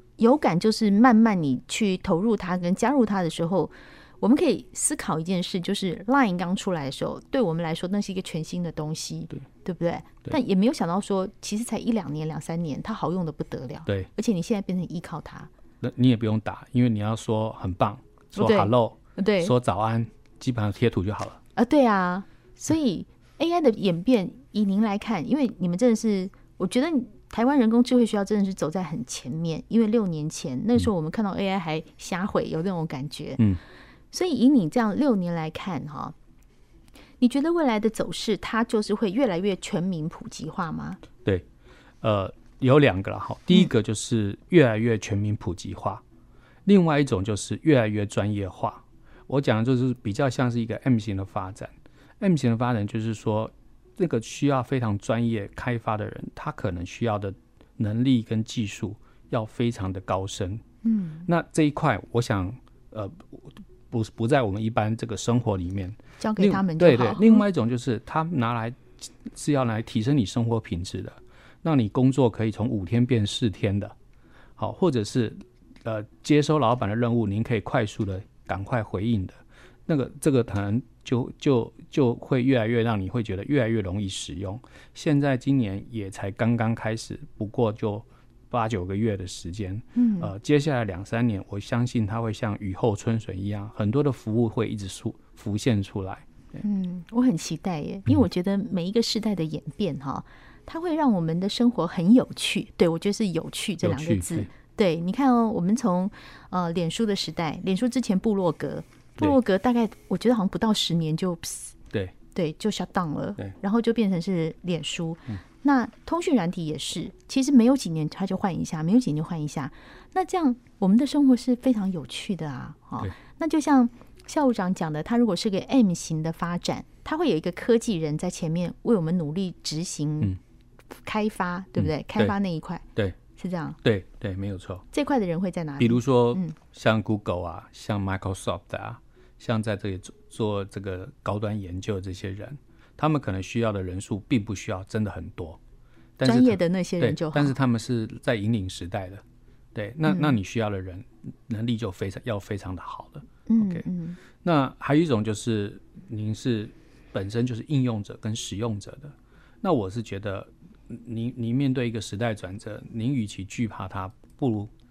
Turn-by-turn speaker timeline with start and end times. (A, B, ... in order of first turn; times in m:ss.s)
0:00.2-0:15.5 A
0:15.8-0:21.4 B
0:18.4-0:19.5 A
0:21.6-0:33.4 A
0:34.1-0:36.1 A
0:37.2-0:41.0 A
0:42.0-0:46.0 B
0:46.6-1:00.6 B
1:00.8-1:01.3 A
1:01.2-1:13.9 B
1:06.2-1:07.4 A
1:14.6-1:36.6 B
1:30.0-1:30.3 A
1:36.6-1:51.8 A
1:43.8-1:44.5 B
1:52.3-2:10.4 A
2:11.0-2:12.8 A
2:11.8-2:12.3 B
2:13.4-2:13.8 A
2:13.8-2:14.8 B
2:14.9-2:16.6 A
2:15.8-2:25.6 B
2:26.2-2:29.2 B
2:26.2-2:27.5 A
2:29.7-2:33.8 B
2:30.1-2:30.3 A
2:33.5-2:34.2 A
2:34.4-2:44.7 B